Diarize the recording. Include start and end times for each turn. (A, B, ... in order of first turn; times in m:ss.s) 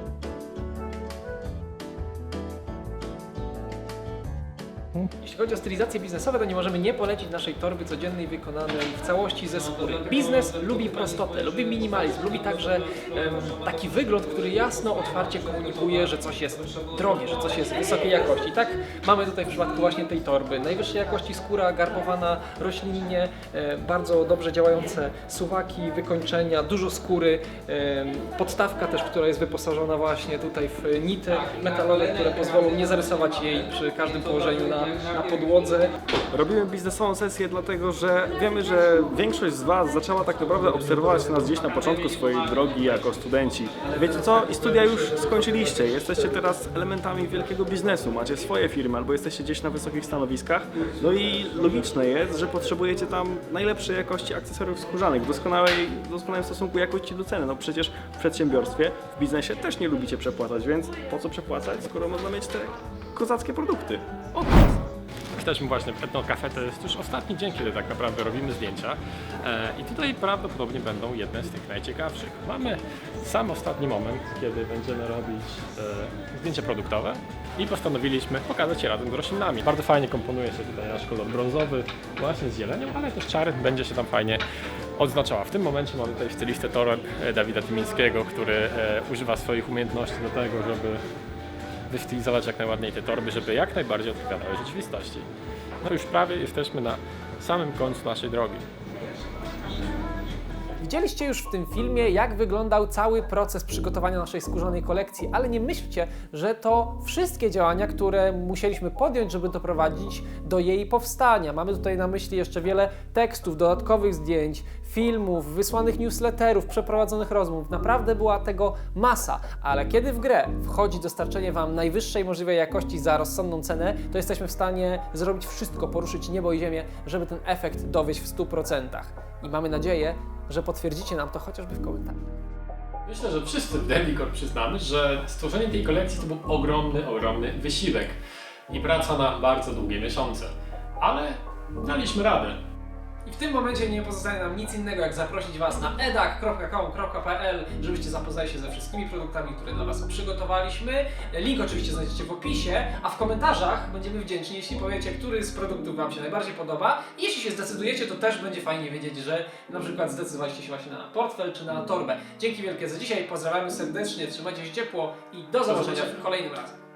0:05.1-0:35.9 A
0:36.3-1:04.3 B
1:04.3-1:24.4 C
1:25.0-1:31.0 C
1:31.9-1:35.3 C
1:35.8-1:38.7 C
1:40.8-2:12.2 A
2:13.0-2:18.2 C
2:18.7-2:22.6 C
2:23.2-2:46.8 A
2:45.7-2:46.2 C